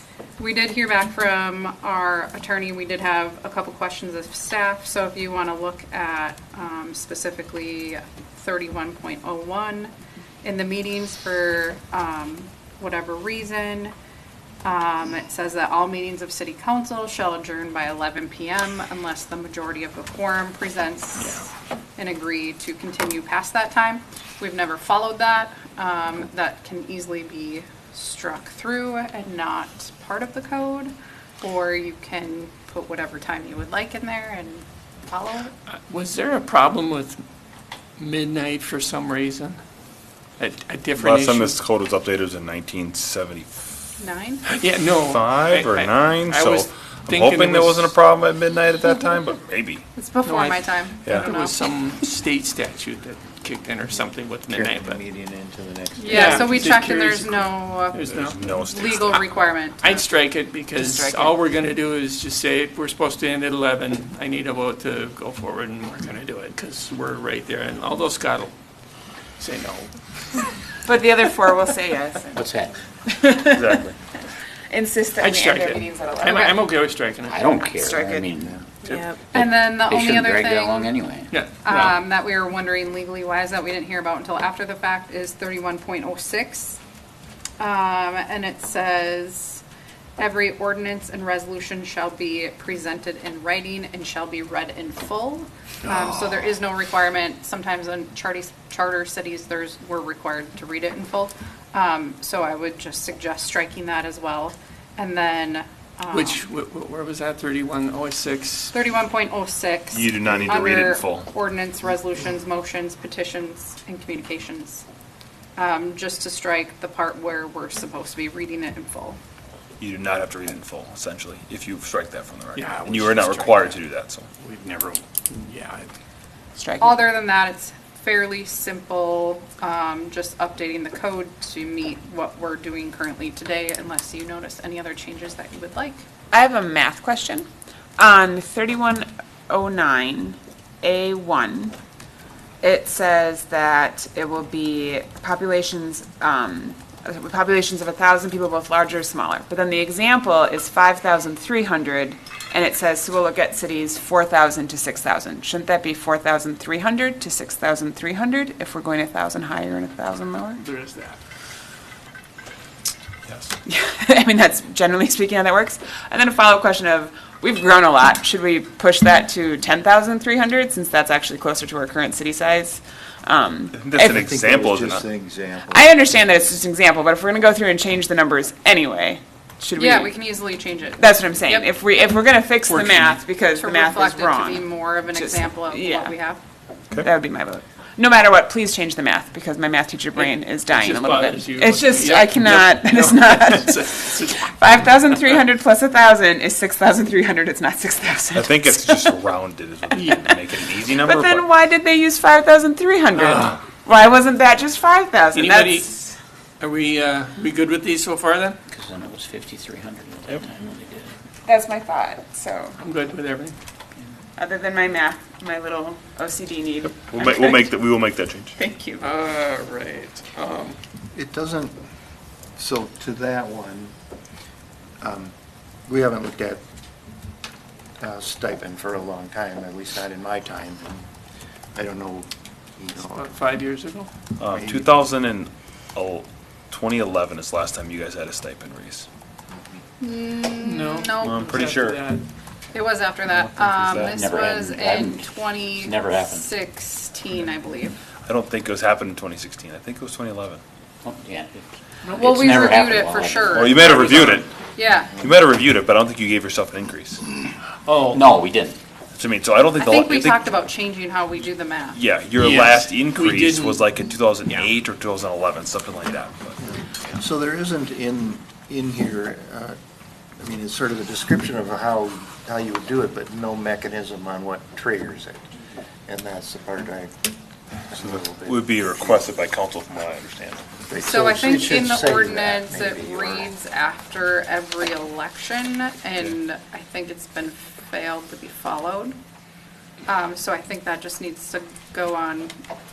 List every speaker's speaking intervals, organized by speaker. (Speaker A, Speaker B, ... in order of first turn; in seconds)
Speaker A: 0.4-9.9, 10.4-13.9, 14.6-35.5, 44.0-44.4, 50.0-51.7, 56.0-60.0, 79.2-80.9, 81.6-86.8, 87.6-89.6, 90.2-106.5, 108.7-114.8, 115.5-119.2, 126.8-136.0, 179.8-181.7, 183.5-186.4, 240.0-241.7, 242.7-247.9, 252.1-255.2, 259.8-262.0, 281.0-289.1, 290.1-292.5
Speaker B: 35.9-37.2, 38.0-39.6, 40.4-41.6, 44.4-47.9, 50.2-55.0, 56.1-58.4, 59.1-68.5, 69.4-70.5, 75.2-77.5, 78.8-79.1, 81.3-82.0, 106.1-108.7, 122.5-123.8, 124.4-125.9, 160.6-161.2, 182.7-183.2, 190.1-195.4, 199.9-200.3, 203.1-203.6, 205.3-206.0, 206.6-208.6, 212.8-213.5, 219.0-220.8, 233.0-234.1, 240.6-242.2, 257.9-258.3, 262.3-263.9
Speaker C: 40.9-43.9, 45.0-49.8, 51.0-51.3, 58.2-59.2, 73.5-74.0, 109.9-111.3, 119.8-124.3, 173.7-175.1, 198.3-201.4, 216.9-218.6, 234.4-239.1, 241.2-242.0, 243.3-244.1, 248.2-250.6, 253.5-254.5, 255.2-257.2, 259.1-260.6, 261.9-266.6, 278.0-280.7
Speaker D: 54.5-56.9, 174.0-175.9, 221.1-221.7, 222.6-223.9, 225.0-225.3, 225.9-226.6, 228.0-231.0, 231.7-233.2, 234.5-234.9, 266.7-269.8, 270.4-275.4, 276.1-277.1, 277.9-278.9, 280.9-283.5
Speaker E: 60.8-61.4, 70.8-72.5, 73.0-73.8, 74.7-76.7, 77.7-78.3, 126.6-127.1, 136.3-137.4, 138.0-141.7, 142.6-160.6, 163.7-174.2, 175.7-180.2, 181.0-186.1, 186.9-199.1, 200.0-200.4, 200.9-206.1, 211.4-212.8, 214.4-217.7, 218.6-219.0
Speaker F: 72.3-72.7, 77.2-78.6, 79.3-81.4, 208.7-211.2, 243.9-246.5, 251.0-254.0, 258.0-258.8